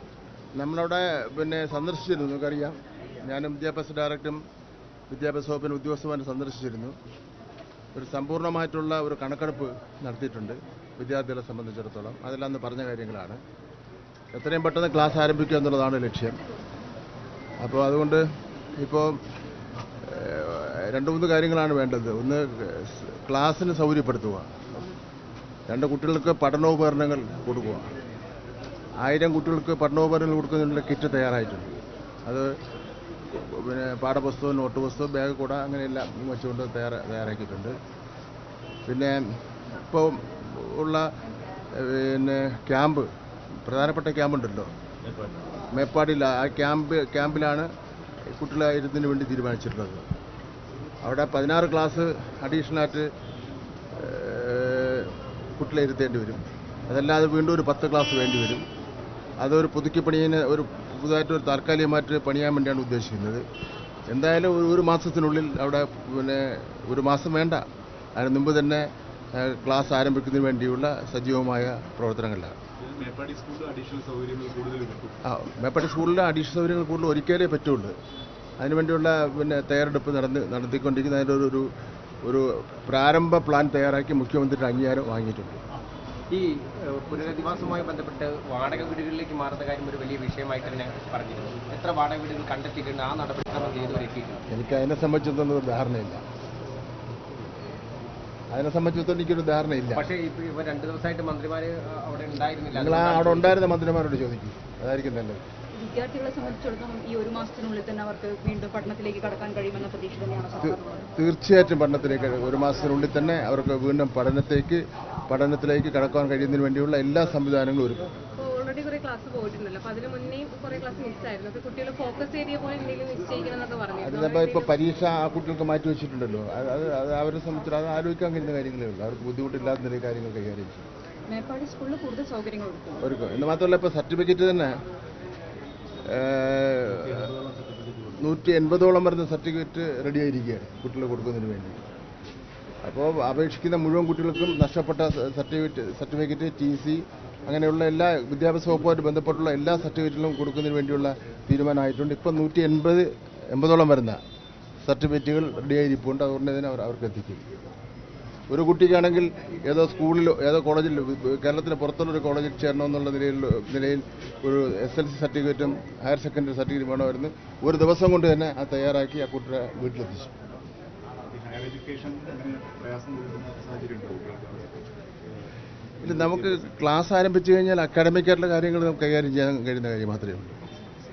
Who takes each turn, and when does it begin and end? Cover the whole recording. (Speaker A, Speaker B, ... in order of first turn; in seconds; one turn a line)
Speaker A: 0.6-4.4
Speaker A: 5.1-7.0
Speaker A: 8.0-13.4
Speaker A: 14.3-16.4
Speaker A: 17.6-18.2
Speaker A: 18.8-19.2
Speaker A: 20.0-24.6
Speaker A: 25.7-27.9
Speaker A: 29.0-31.7
Speaker A: 32.3-32.5
Speaker A: 33.4-37.8
Speaker A: 38.9-39.2
Speaker A: 39.8-41.1
Speaker A: 41.8-43.1
Speaker A: 43.6-44.7
Speaker A: 45.7-47.7
Speaker A: 48.4-50.0
Speaker A: 51.0-53.1
Speaker A: 54.0-58.6
Speaker A: 59.4-63.4
Speaker A: 64.1-67.7
Speaker A: 68.2-72.6
Speaker B: 72.8-75.2
Speaker A: 75.2-78.0
Speaker A: 78.6-81.7
Speaker A: 82.2-85.6
Speaker B: 86.3-94.4
Speaker A: 94.5-96.2
Speaker A: 98.5-100.1
Speaker B: 99.9-103.6
Speaker A: 102.7-105.4
Speaker C: 105.7-111.1
Speaker A: 110.6-118.1
Speaker D: 118.4-124.7
Speaker A: 124.0-130.8
Speaker C: 131.3-133.0
Speaker A: 133.0-134.8
Speaker A: 136.1-137.3
Speaker B: 136.9-138.2
Speaker A: 138.2-141.8
Speaker A: 142.8-154.2
Speaker A: 154.8-157.4
Speaker A: 158.5-170.3
Speaker B: 171.3-174.8
Speaker B: 176.0-176.6
Speaker A: 176.0-180.6